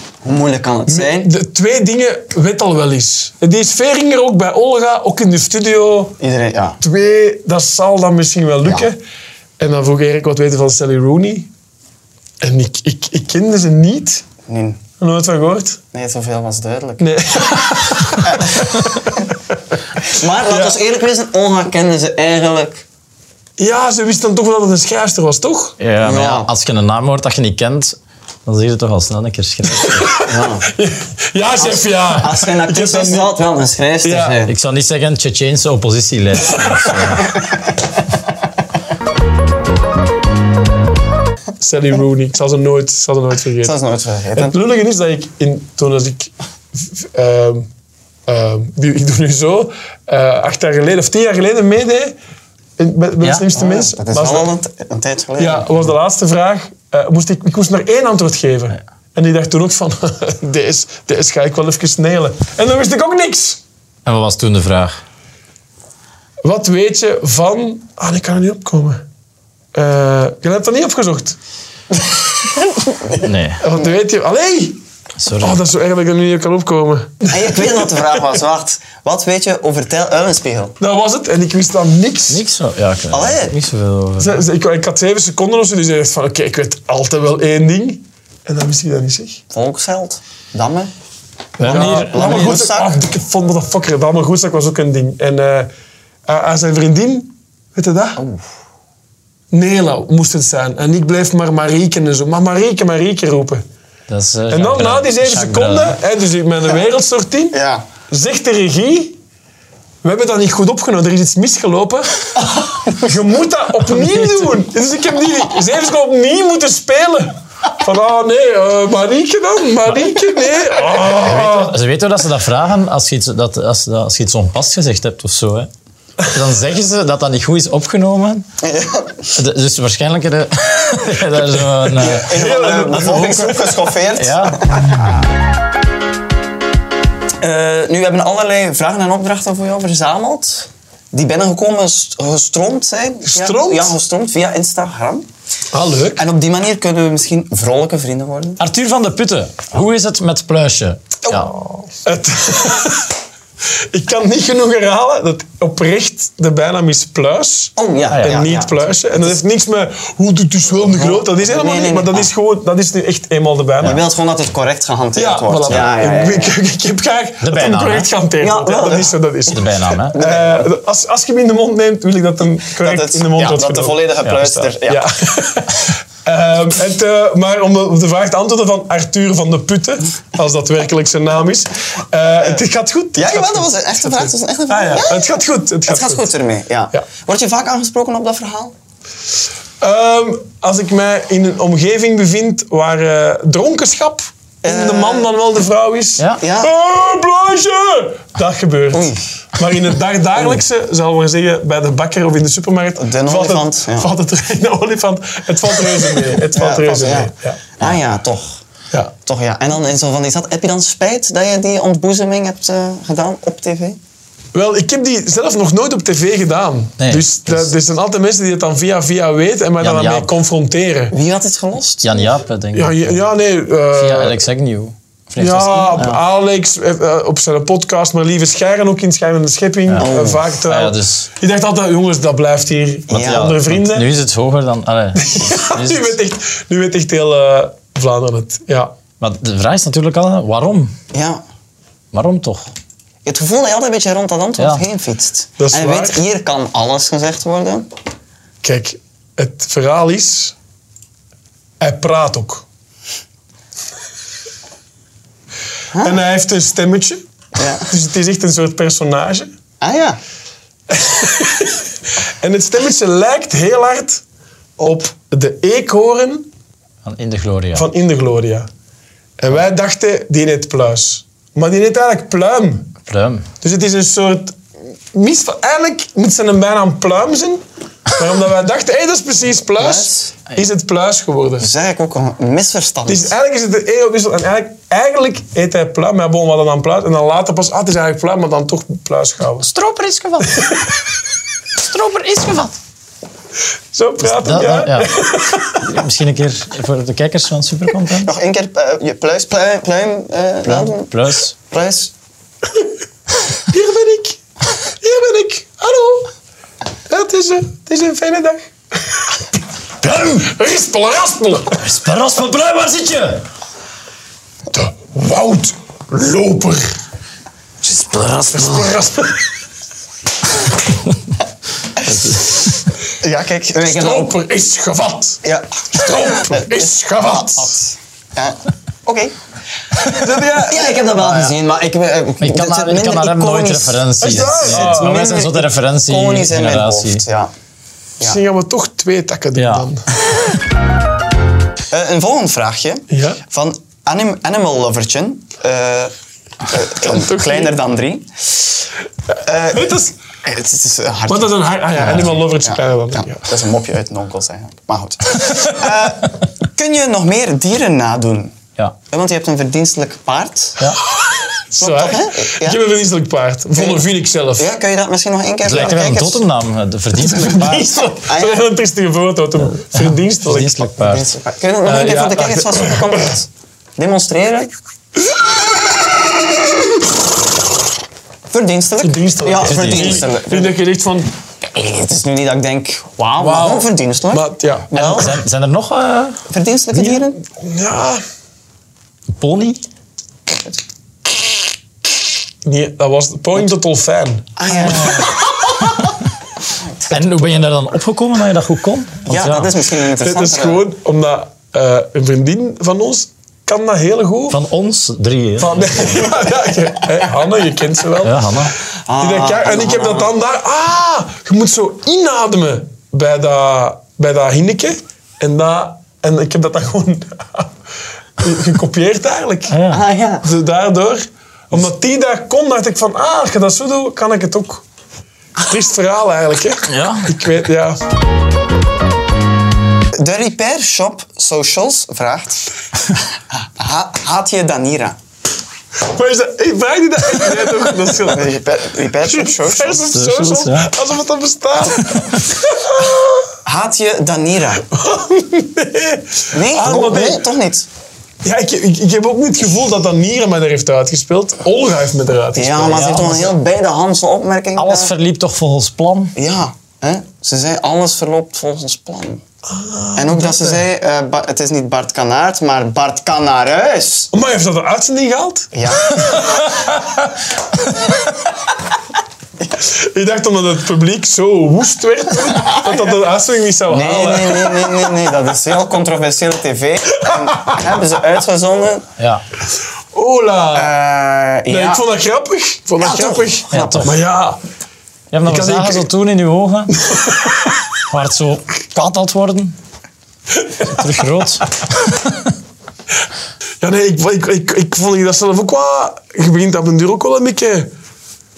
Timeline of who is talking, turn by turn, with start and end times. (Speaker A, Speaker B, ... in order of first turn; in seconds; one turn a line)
Speaker A: 0.2-1.3
Speaker B: 0.9-6.2
Speaker A: 6.2-6.8
Speaker B: 6.8-9.0
Speaker B: 9.6-11.5
Speaker B: 12.4-14.2
Speaker A: 14.4-14.8
Speaker B: 15.0-15.8
Speaker A: 15.9-17.1
Speaker B: 17.0-19.3
Speaker A: 18.2-19.0
Speaker A: 20.1-22.9
Speaker B: 20.5-20.8
Speaker B: 23.6-25.8
Speaker C: 25.8-30.1
Speaker A: 26.0-26.5
Speaker B: 29.8-33.4
Speaker A: 30.3-30.7
Speaker A: 31.6-34.5
Speaker B: 34.0-34.4
Speaker C: 34.5-37.3
Speaker B: 36.7-37.1
Speaker B: 41.6-43.8
Speaker A: 43.6-44.6
Speaker B: 44.4-47.7
Speaker B: 48.3-52.1
Speaker B: 52.8-54.5
Speaker C: 53.2-53.5
Speaker A: 53.5-55.7
Speaker B: 55.4-63.6
Speaker C: 64.0-65.0
Speaker B: 66.4-69.0
Speaker B: 69.7-71.4
Speaker C: 73.2-73.6
Speaker B: 73.6-74.8
Speaker C: 75.2-75.6
Speaker B: 75.4-78.2
Speaker A: 77.3-80.8
Speaker B: 80.8-82.4
Speaker C: 82.3-84.4
Speaker A: 83.1-83.5
Speaker B: 84.2-89.4
Speaker A: 89.5-90.9
Speaker C: 91.6-92.6
Speaker B: 91.6-95.7
Speaker A: 91.7-93.0
Speaker B: 96.3-98.2
Speaker A: 98.2-98.4
Speaker B: 99.5-103.6
Speaker C: 104.1-106.0
Speaker B: 104.5-107.6
Speaker A: 107.5-107.9
Speaker B: 108.1-109.2
Speaker B: 110.0-121.8
Speaker C: 114.0-114.4
Speaker C: 121.0-125.7
Speaker C: 126.3-128.4
Speaker A: 128.6-129.2
Speaker C: 129.3-132.3
Speaker A: 132.0-135.0
Speaker B: 132.3-133.8
Speaker C: 134.2-134.6
Speaker A: 137.4-145.3
Speaker B: 143.2-143.9
Speaker B: 145.7-146.2
Speaker A: 146.2-148.6
Speaker C: 148.6-151.5
Speaker A: 151.3-151.5
Speaker B: 152.0-153.1
Speaker B: 153.9-164.0
Speaker A: 157.8-159.3
Speaker C: 158.1-158.4
Speaker A: 160.8-162.3
Speaker A: 163.8-166.6
Speaker B: 165.2-186.2
Speaker C: 167.4-168.1
Speaker A: 168.4-169.2
Speaker C: 169.5-170.2
Speaker A: 170.1-170.7
Speaker A: 172.8-175.1
Speaker A: 183.2-188.8
Speaker B: 189.8-207.6
Speaker A: 194.6-195.3
Speaker A: 196.4-196.7
Speaker A: 198.9-199.2
Speaker A: 203.0-204.1
Speaker A: 206.5-208.6
Speaker A: 209.2-214.0
Speaker B: 214.5-221.2
Speaker C: 217.0-217.7
Speaker C: 219.8-220.3
Speaker A: 221.1-222.2
Speaker C: 222.0-223.2
Speaker B: 222.7-224.4
Speaker C: 223.9-226.2
Speaker B: 225.4-234.1
Speaker C: 229.9-231.3
Speaker A: 230.0-230.4
Speaker A: 233.1-233.5
Speaker C: 233.1-236.2
Speaker B: 235.2-238.9
Speaker C: 239.2-240.9
Speaker A: 241.1-241.4
Speaker C: 242.1-242.7
Speaker A: 243.2-247.9
Speaker C: 244.6-244.8
Speaker B: 245.6-246.2
Speaker B: 248.6-250.6
Speaker B: 251.8-252.7
Speaker A: 255.9-256.2
Speaker B: 256.0-257.2
Speaker A: 257.6-257.9
Speaker B: 257.8-259.5
Speaker A: 259.8-260.2
Speaker B: 260.9-261.8
Speaker B: 262.4-264.2
Speaker B: 264.8-266.5
Speaker C: 267.1-267.9
Speaker B: 267.8-268.7
Speaker B: 269.4-272.9
Speaker C: 273.1-273.4
Speaker B: 273.6-274.6
Speaker B: 275.1-281.7
Speaker A: 279.8-280.3
Speaker A: 281.6-283.3
Speaker B: 283.1-289.7
Speaker C: 289.6-290.6
Speaker B: 290.5-290.9
Speaker C: 291.8-292.8
Speaker B: 293.9-295.9
Speaker C: 294.2-295.1
Speaker C: 295.8-298.3
Speaker A: 298.2-302.1
Speaker C: 300.7-301.6
Speaker B: 303.6-304.4
Speaker B: 305.0-306.3
Speaker B: 307.1-309.2
Speaker B: 310.0-311.8
Speaker C: 311.8-313.4
Speaker B: 314.7-316.9
Speaker C: 317.8-318.9
Speaker B: 318.5-319.5
Speaker C: 322.0-322.7
Speaker A: 323.2-324.3
Speaker B: 323.8-325.4
Speaker A: 325.4-329.3
Speaker B: 325.9-327.8
Speaker B: 330.0-331.2
Speaker A: 330.5-337.5
Speaker C: 332.4-337.2
Speaker B: 334.2-335.3
Speaker B: 338.2-340.0
Speaker C: 339.6-339.9
Speaker A: 341.9-346.1
Speaker B: 343.1-343.4
Speaker A: 346.6-348.7
Speaker B: 347.0-347.8
Speaker A: 349.4-358.6
Speaker B: 349.7-350.1
Speaker B: 351.3-353.5
Speaker A: 359.1-360.8
Speaker B: 361.1-364.7
Speaker A: 361.8-362.8
Speaker A: 363.8-364.0
Speaker A: 364.6-366.4
Speaker C: 365.6-368.0
Speaker B: 367.2-370.9
Speaker A: 367.9-368.7
Speaker C: 369.9-371.3
Speaker A: 371.0-374.7
Speaker B: 371.8-373.2
Speaker A: 378.5-380.8
Speaker B: 379.0-381.3
Speaker C: 379.6-380.3
Speaker A: 381.7-385.4
Speaker B: 383.4-384.9
Speaker C: 384.9-386.4
Speaker A: 386.5-387.4
Speaker B: 386.9-388.2
Speaker C: 389.4-389.8
Speaker B: 392.6-395.4
Speaker A: 394.6-395.3
Speaker C: 394.7-395.3
Speaker A: 396.8-397.5
Speaker C: 397.1-399.7
Speaker A: 399.3-400.9
Speaker B: 400.2-404.6
Speaker C: 404.5-405.9
Speaker B: 405.6-408.6
Speaker C: 408.2-408.7
Speaker A: 409.1-410.3
Speaker B: 409.2-417.7
Speaker B: 418.4-419.8
Speaker C: 419.7-420.0
Speaker A: 419.9-420.4
Speaker B: 420.4-424.8
Speaker B: 425.6-428.0
Speaker C: 426.9-427.3
Speaker A: 430.1-432.6
Speaker A: 433.5-435.2
Speaker B: 436.0-438.6
Speaker A: 438.3-440.1
Speaker B: 439.2-443.5
Speaker C: 440.1-440.9
Speaker A: 443.6-444.9
Speaker B: 444.9-447.4
Speaker A: 446.5-447.9
Speaker B: 448.4-453.4
Speaker A: 452.6-455.1
Speaker C: 452.9-453.5
Speaker C: 454.8-456.3
Speaker A: 456.4-459.4
Speaker B: 459.7-460.8
Speaker A: 460.1-464.3
Speaker B: 464.3-467.3
Speaker A: 465.7-466.4
Speaker B: 469.8-475.1
Speaker A: 472.7-473.0
Speaker A: 473.9-479.1
Speaker B: 477.3-477.8
Speaker C: 479.2-479.4
Speaker B: 480.1-480.9
Speaker A: 480.7-482.0
Speaker B: 481.7-484.6
Speaker A: 483.0-484.1
Speaker C: 483.7-484.1
Speaker C: 485.3-487.0
Speaker B: 485.4-486.1
Speaker B: 487.0-487.7
Speaker C: 488.1-489.8
Speaker C: 490.9-491.6
Speaker B: 493.8-497.9